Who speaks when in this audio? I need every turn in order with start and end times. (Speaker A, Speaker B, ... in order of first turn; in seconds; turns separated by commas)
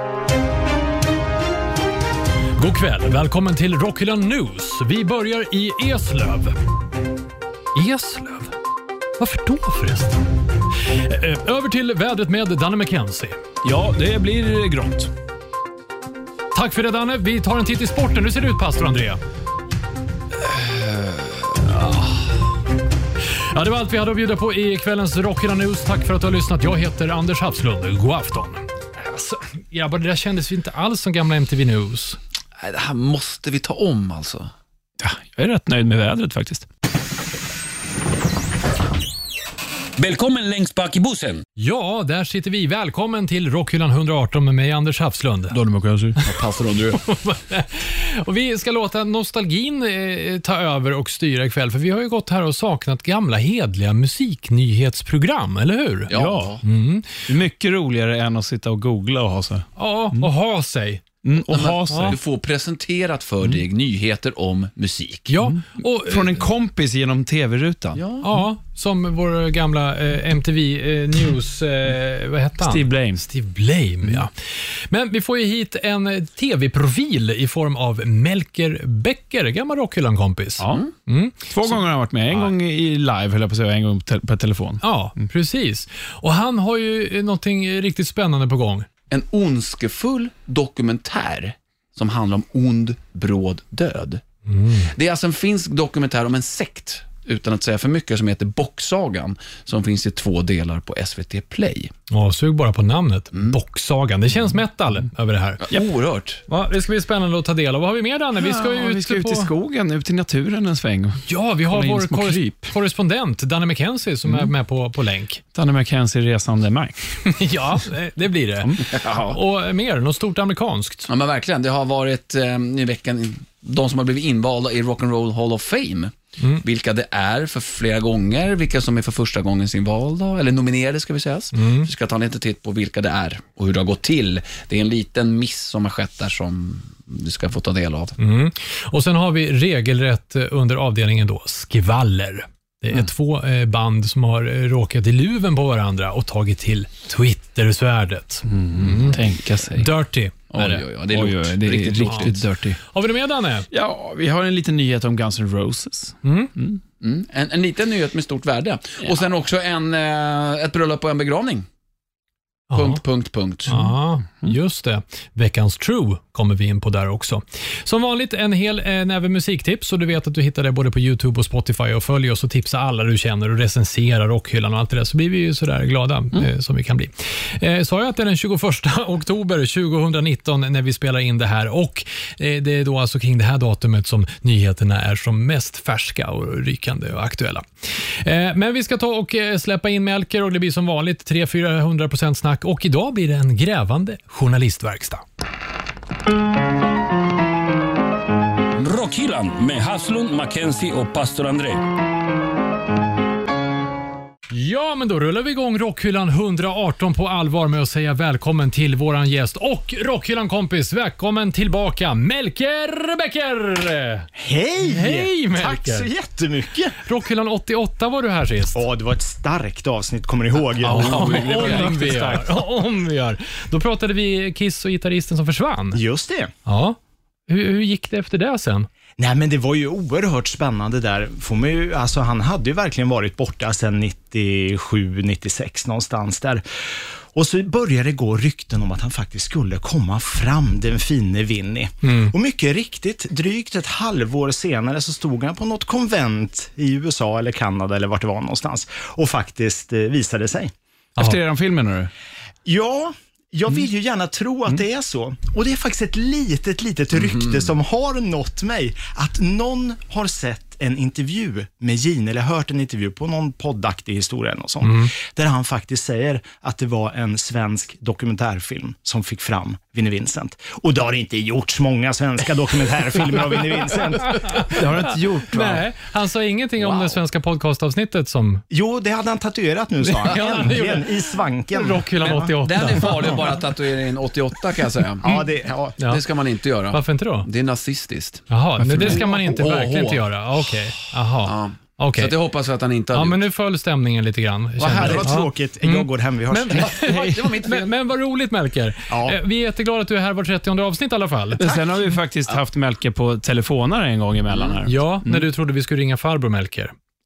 Speaker A: 2.6-6.6, Speaker A: 7.8-8.5, Speaker A: 9.2-10.2, Speaker A: 10.8-13.4, Speaker B: 13.6-15.1, Speaker A: 16.5-19.2, Speaker C: 20.4-22.2, Speaker A: 23.4-32.2, Speaker C: 32.6-34.5, Speaker B: 35.0-36.7, Speaker D: 40.0-41.4, Speaker A: 41.6-45.6, Speaker B: 45.5-46.2, Speaker C: 46.2-47.0, Speaker A: 46.9-57.1, Speaker C: 56.1-56.6, Speaker B: 56.1-56.5, Speaker B: 57.3-60.3, Speaker A: 59.8-61.2, Speaker B: 61.2-62.2, Speaker C: 61.5-65.3, Speaker A: 61.9-62.2, Speaker A: 65.3-66.4, Speaker B: 65.4-68.0, Speaker C: 68.0-68.2, Speaker A: 68.2-82.5, Speaker B: 72.6-73.2, Speaker B: 80.6-80.9, Speaker B: 81.5-84.8, Speaker A: 84.8-88.9, Speaker C: 89.1-94.2, Speaker A: 94.5-94.9, Speaker C: 94.9-101.9, Speaker A: 102.1-105.6, Speaker C: 105.6-106.5, Speaker A: 106.5-109.5, Speaker B: 108.4-112.7, Speaker A: 111.3-115.4, Speaker B: 115.5-117.2, Speaker A: 117.2-121.1, Speaker C: 118.8-119.4, Speaker C: 121.1-138.2, Speaker A: 131.5-131.9, Speaker A: 138.2-150.4, Speaker B: 148.5-149.9, Speaker C: 150.5-152.5, Speaker B: 150.6-152.8, Speaker A: 152.0-152.3, Speaker A: 152.8-153.7, Speaker B: 153.7-156.8, Speaker A: 156.2-156.5, Speaker C: 157.0-161.7, Speaker A: 162.7-163.0, Speaker C: 162.7-163.8, Speaker A: 163.7-195.2, Speaker D: 198.8-201.8, Speaker A: 204.5-214.3, Speaker E: 214.3-217.0, Speaker A: 214.8-216.1, Speaker A: 217.0-218.8, Speaker E: 218.7-221.8, Speaker B: 220.8-222.6, Speaker A: 220.9-226.0, Speaker E: 225.9-226.5, Speaker A: 226.7-228.9, Speaker E: 229.2-250.7, Speaker A: 242.0-242.3, Speaker B: 251.2-252.1, Speaker E: 252.7-274.7, Speaker A: 264.8-265.1, Speaker A: 274.3-274.8, Speaker B: 274.6-275.9, Speaker A: 275.3-278.6, Speaker C: 276.8-277.2, Speaker E: 278.7-282.4, Speaker A: 280.0-283.6, Speaker C: 282.3-285.4, Speaker E: 285.2-286.0, Speaker C: 286.1-290.3, Speaker A: 286.9-287.5, Speaker A: 288.5-292.3, Speaker B: 288.9-289.2, Speaker C: 291.4-293.4, Speaker A: 293.1-301.8, Speaker C: 294.8-295.3, Speaker E: 294.9-297.5, Speaker C: 296.7-297.9, Speaker E: 299.1-299.4, Speaker B: 301.6-305.5, Speaker C: 304.5-304.8, Speaker A: 304.9-306.9